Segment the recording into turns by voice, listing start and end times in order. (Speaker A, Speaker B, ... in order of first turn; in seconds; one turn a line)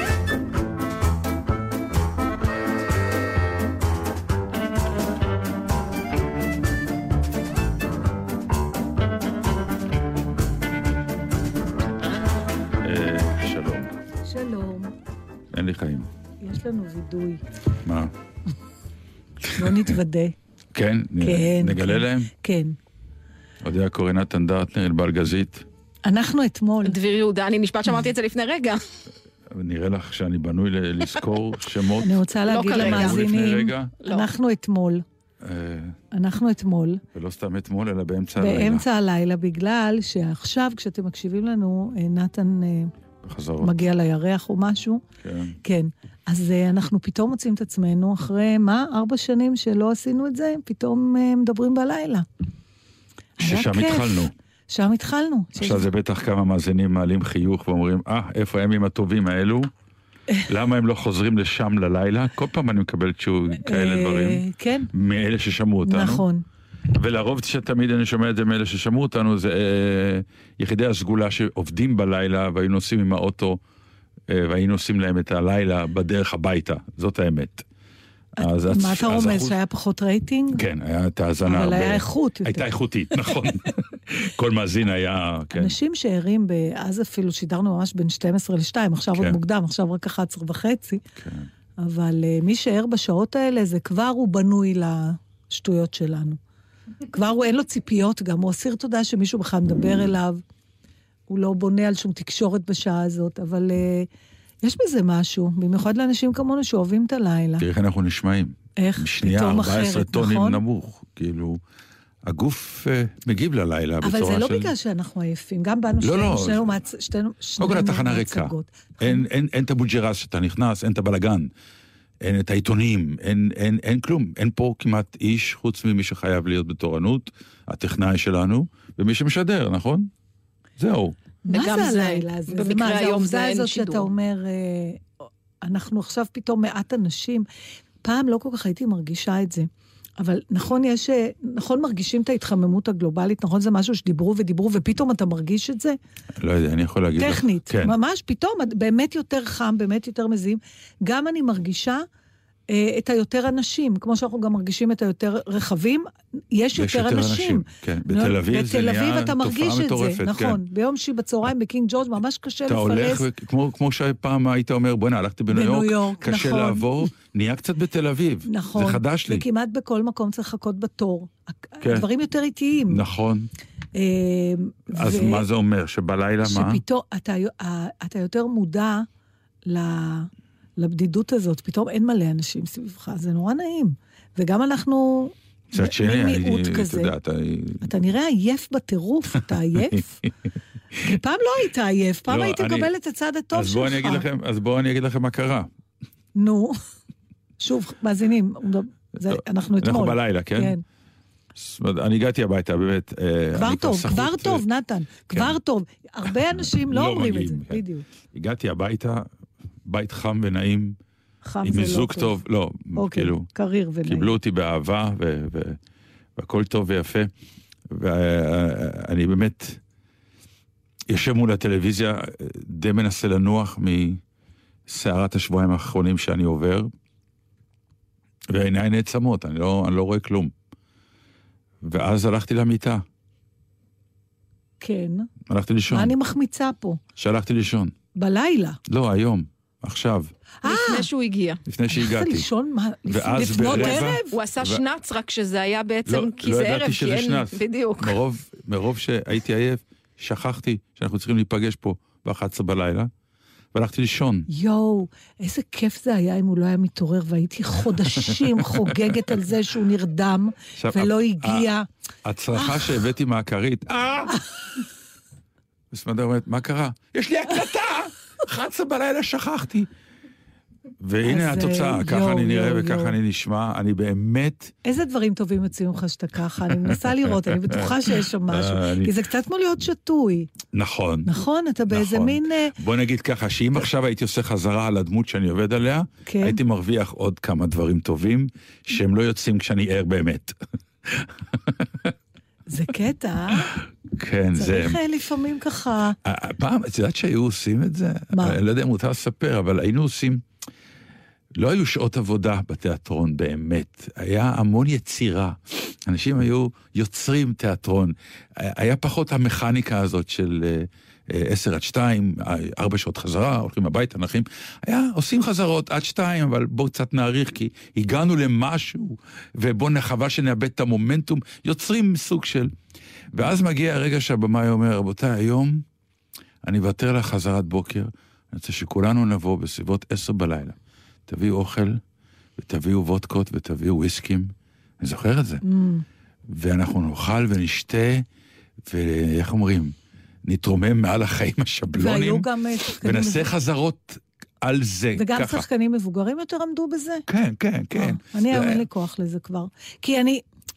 Speaker A: 12.8-13.9
Speaker B: 14.2-14.9
Speaker A: 15.5-16.1
Speaker B: 16.4-17.4
Speaker A: 17.8-18.1
Speaker A: 19.5-19.9
Speaker B: 19.5-20.3
Speaker A: 20.7-22.3
Speaker B: 21.2-22.8
Speaker A: 23.6-25.7
Speaker B: 26.1-26.9
Speaker C: 26.8-28.8
Speaker A: 29.5-33.9
Speaker B: 32.0-35.0
Speaker C: 32.5-33.2
Speaker C: 34.0-34.3
Speaker A: 35.4-36.0
Speaker B: 36.1-37.0
Speaker A: 37.1-38.9
Speaker B: 38.4-42.9
Speaker A: 43.2-43.8
Speaker B: 43.6-45.0
Speaker A: 45.2-45.6
Speaker B: 45.6-52.2
Speaker A: 53.4-54.3
Speaker B: 53.4-55.9
Speaker A: 55.6-59.7
Speaker A: 60.5-66.2
Speaker B: 63.6-64.9
Speaker B: 65.8-66.4
Speaker A: 66.9-73.6
Speaker A: 74.3-77.6
Speaker A: 78.4-79.5
Speaker B: 78.4-80.6
Speaker A: 80.5-85.8
Speaker B: 81.5-83.7
Speaker B: 85.5-91.0
Speaker A: 91.2-91.5
Speaker B: 91.8-96.4
Speaker B: 97.1-100.4
Speaker B: 101.3-104.1
Speaker B: 104.6-107.6
Speaker A: 107.6-111.6
Speaker B: 108.8-110.6
Speaker A: 112.2-114.7
Speaker B: 114.0-119.3
Speaker A: 116.0-116.8
Speaker A: 117.6-121.5
Speaker A: 122.2-130.1
Speaker A: 130.8-131.2
Speaker B: 131.4-135.1
Speaker C: 131.5-134.1
Speaker B: 135.6-137.4
Speaker B: 138.0-139.7
Speaker B: 140.2-146.0
Speaker A: 146.4-147.9
Speaker B: 147.2-152.0
Speaker B: 152.7-163.2
Speaker A: 156.8-160.6
Speaker A: 162.7-169.4
Speaker B: 165.5-166.9
Speaker B: 168.5-173.0
Speaker A: 171.8-172.1
Speaker A: 172.9-173.5
Speaker B: 173.9-175.4
Speaker A: 174.9-176.8
Speaker B: 176.4-179.1
Speaker B: 179.7-187.1
Speaker A: 185.7-187.9
Speaker B: 187.8-190.2
Speaker A: 189.8-191.2
Speaker B: 191.0-194.2
Speaker A: 192.3-192.9
Speaker A: 193.5-195.7
Speaker B: 196.4-196.8
Speaker B: 197.6-200.8
Speaker A: 199.2-200.8
Speaker A: 201.6-204.6
Speaker B: 203.6-208.1
Speaker A: 206.3-209.3
Speaker A: 209.8-211.0
Speaker B: 211.4-212.4
Speaker A: 211.6-213.5
Speaker B: 212.9-214.4
Speaker A: 214.1-215.8
Speaker A: 216.3-217.3
Speaker A: 217.9-219.8
Speaker A: 221.1-224.2
Speaker A: 224.9-226.9
Speaker A: 228.5-230.5
Speaker A: 231.8-233.0
Speaker B: 234.8-235.3
Speaker A: 235.5-236.1
Speaker B: 235.9-237.0
Speaker A: 237.2-237.9
Speaker B: 238.2-238.8
Speaker A: 238.9-240.3
Speaker B: 240.6-241.0
Speaker C: 240.7-241.6
Speaker A: 241.7-242.5
Speaker B: 241.9-244.3
Speaker A: 243.1-244.8
Speaker C: 243.7-248.2
Speaker A: 246.1-253.1
Speaker A: 253.7-254.5
Speaker B: 254.5-261.9
Speaker A: 258.1-259.4
Speaker A: 260.8-261.7
Speaker A: 262.2-264.4
Speaker B: 262.5-263.0
Speaker A: 265.9-269.9
Speaker A: 271.0-274.7
Speaker B: 271.2-273.2
Speaker B: 274.8-280.5
Speaker A: 276.7-279.1
Speaker A: 280.7-281.3
Speaker B: 281.2-282.8
Speaker A: 281.9-292.1
Speaker B: 286.2-286.6
Speaker B: 292.7-293.8
Speaker A: 293.8-295.0
Speaker B: 294.6-296.1
Speaker A: 296.2-300.4
Speaker B: 298.3-298.6
Speaker A: 301.5-322.7
Speaker A: 323.3-325.8
Speaker A: 326.6-332.0
Speaker A: 332.6-335.6
Speaker B: 335.6-336.0
Speaker A: 336.5-338.2
Speaker A: 338.9-339.9
Speaker A: 340.4-342.5
Speaker B: 341.9-343.5
Speaker A: 343.0-345.7
Speaker B: 345.1-347.2
Speaker A: 347.3-348.9
Speaker B: 347.9-350.4